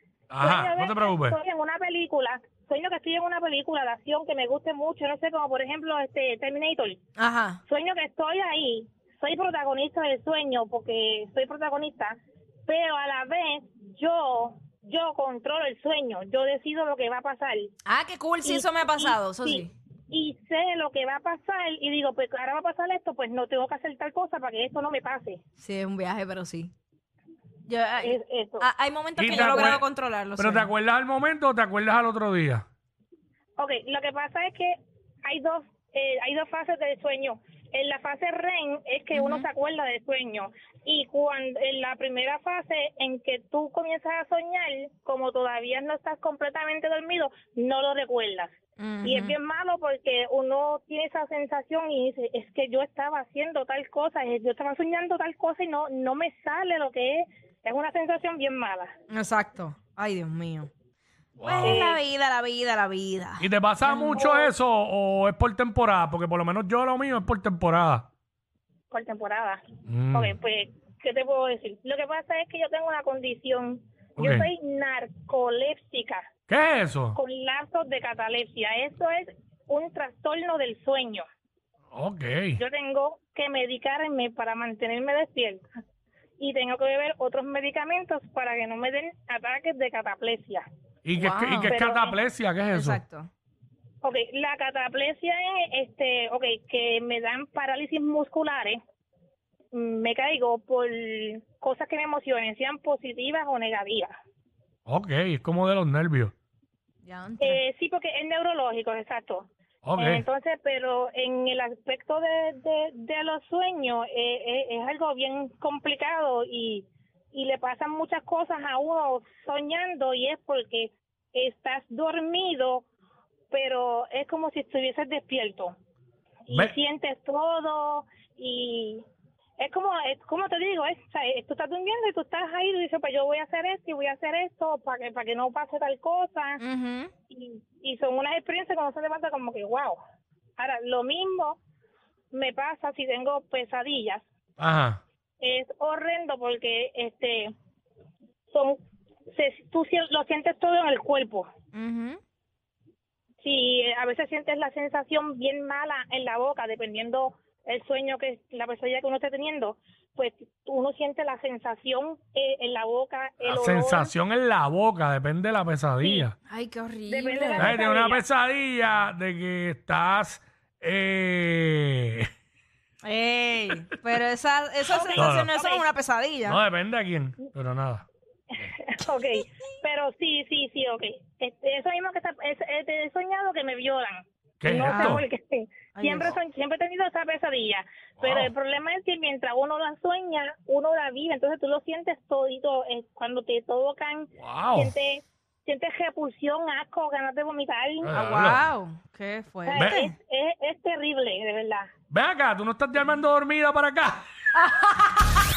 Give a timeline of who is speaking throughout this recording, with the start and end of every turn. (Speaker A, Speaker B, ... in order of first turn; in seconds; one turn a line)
Speaker A: 0.3-1.4
Speaker B: 0.4-7.0
Speaker C: 7.2-7.6
Speaker B: 7.7-17.7
Speaker C: 17.9-19.7
Speaker B: 18.4-25.4
Speaker C: 25.6-26.7
Speaker C: 27.7-30.7
Speaker B: 28.0-28.7
Speaker A: 29.2-32.6
Speaker B: 33.6-58.9
Speaker C: 39.1-39.5
Speaker C: 48.8-49.4
Speaker C: 59.1-60.7
Speaker A: 61.4-61.9
Speaker C: 61.4-64.2
Speaker B: 61.6-62.0
Speaker A: 63.4-68.1
Speaker B: 64.2-64.5
Speaker B: 68.9-76.3
Speaker A: 69.9-70.3
Speaker A: 74.2-74.5
Speaker A: 76.5-77.2
Speaker B: 77.2-81.2
Speaker A: 81.9-82.6
Speaker B: 82.6-85.7
Speaker B: 86.4-90.7
Speaker A: 91.0-93.0
Speaker C: 91.2-91.7
Speaker B: 91.6-92.2
Speaker C: 92.7-93.3
Speaker B: 94.0-98.8
Speaker B: 99.7-104.2
Speaker A: 104.9-106.3
Speaker C: 107.0-107.6
Speaker B: 107.4-122.8
Speaker A: 109.8-110.2
Speaker B: 123.5-125.7
Speaker B: 126.5-129.0
Speaker B: 129.6-136.6
Speaker C: 136.6-137.1
Speaker B: 137.3-140.0
Speaker B: 140.6-141.6
Speaker B: 142.3-144.2
Speaker A: 144.6-145.0
Speaker B: 145.4-147.5
Speaker B: 148.5-148.8
Speaker B: 149.3-151.5
Speaker C: 151.7-152.2
Speaker B: 153.4-164.1
Speaker A: 163.4-166.3
Speaker C: 166.5-167.8
Speaker B: 167.1-168.2
Speaker A: 167.6-172.3
Speaker C: 173.0-176.6
Speaker B: 174.9-175.8
Speaker A: 175.2-175.5
Speaker A: 176.4-178.1
Speaker B: 178.6-198.1
Speaker A: 184.6-185.2
Speaker C: 184.8-185.2
Speaker C: 185.9-186.4
Speaker A: 188.2-188.5
Speaker A: 194.4-194.9
Speaker A: 198.0-198.7
Speaker C: 198.1-200.1
Speaker B: 199.7-201.9
Speaker A: 199.8-200.1
Speaker A: 202.1-204.2